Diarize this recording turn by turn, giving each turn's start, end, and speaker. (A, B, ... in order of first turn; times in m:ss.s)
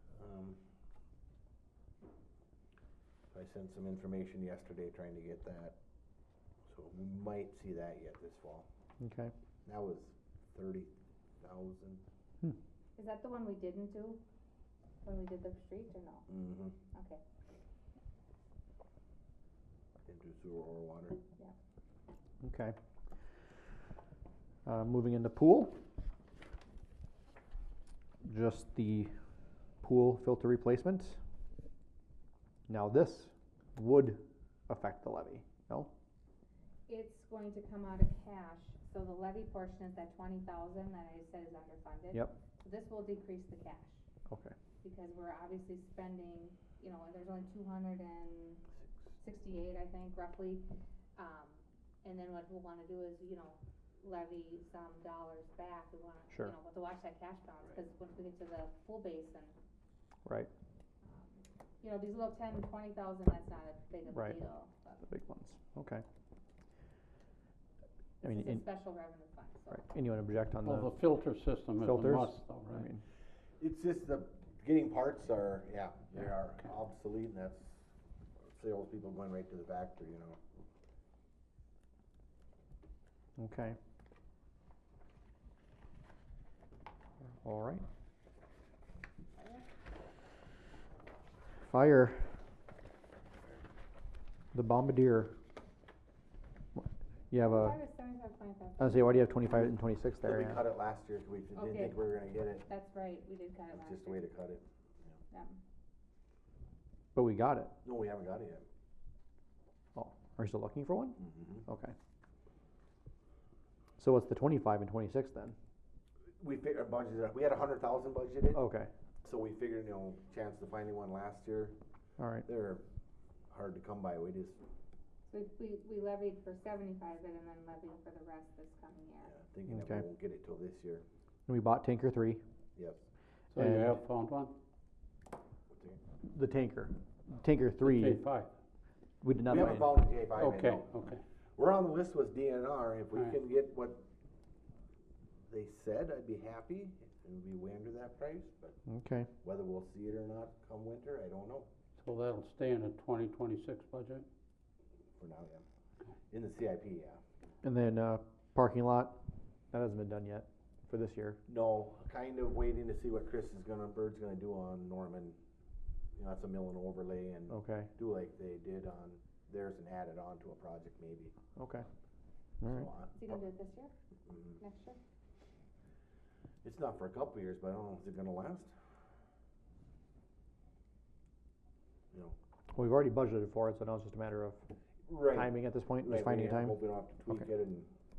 0:00.2-0:00.6 A
0:03.3-0:05.8 A
0:06.7-0:08.7 A
0:09.0-0:09.3 B
0:09.6-0:12.0 A
0:13.0-0:14.2 C
0:15.0-0:16.3 C
0:16.3-0:16.7 A
0:16.9-0:17.2 C
0:20.1-0:21.2 A
0:22.4-0:22.7 B
0:24.6-0:25.8 B
0:28.2-0:29.1 B
0:29.8-0:31.2 B
0:32.7-0:35.9 B
0:36.9-0:44.0 C
0:44.3-0:44.5 B
0:44.8-0:48.6 C
0:49.2-0:50.6 C
0:51.2-0:59.5 C
1:01.0-1:05.0 C
1:05.0-1:06.0 B
1:08.2-1:08.6 B
1:08.2-1:09.8 C
1:09.7-1:10.9 B
1:10.6-1:12.8 D
1:11.8-1:13.0 B
1:13.6-1:17.8 A
1:18.5-1:20.4 A
1:23.4-1:23.8 B
1:27.4-1:27.8 B
1:29.4-1:29.6 C
1:31.6-1:32.3 B
1:34.5-1:35.4 B
1:36.7-1:37.8 B
1:37.4-1:39.2 C
1:38.8-1:40.6 B
1:40.2-1:42.6 A
1:41.6-1:42.0 C
1:42.6-1:44.2 C
1:43.7-1:44.6 A
1:45.3-1:45.6 C
1:47.1-1:47.7 B
1:47.8-1:48.6 A
1:49.9-1:51.9 B
1:51.2-1:51.6 A
1:54.0-1:55.5 B
1:56.4-1:58.6 A
1:58.5-1:58.9 B
1:59.2-2:01.8 A
2:02.2-2:02.4 B
2:02.4-2:02.8 A
2:03.5-2:04.6 A
2:05.3-2:09.3 C
2:09.2-2:11.0 A
2:09.7-2:10.0 B
2:11.5-2:12.4 B
2:12.8-2:13.0 A
2:13.5-2:14.5 D
2:13.6-2:14.0 B
2:15.7-2:16.0 A
2:16.3-2:18.2 B
2:17.8-2:18.5 D
2:19.2-2:19.9 B
2:19.4-2:20.9 A
2:20.4-2:21.2 D
2:21.6-2:24.0 A
2:25.5-2:28.8 A
2:28.9-2:29.3 B
2:29.4-2:31.7 A
2:32.0-2:34.3 D
2:35.2-2:35.6 A
2:36.3-2:37.2 A
2:37.6-2:39.2 B
2:39.7-2:41.4 B
2:41.5-2:45.4 A
2:46.2-2:51.3 A
2:47.5-2:47.9 B
2:51.6-2:51.8 B
2:52.6-2:52.9 B
2:52.6-2:53.4 A
2:53.1-2:53.9 C
2:54.3-2:54.6 A
2:54.6-2:55.0 C
2:56.6-2:58.7 A
3:02.7-3:04.6 B
3:05.1-3:07.9 A
3:05.3-3:06.8 B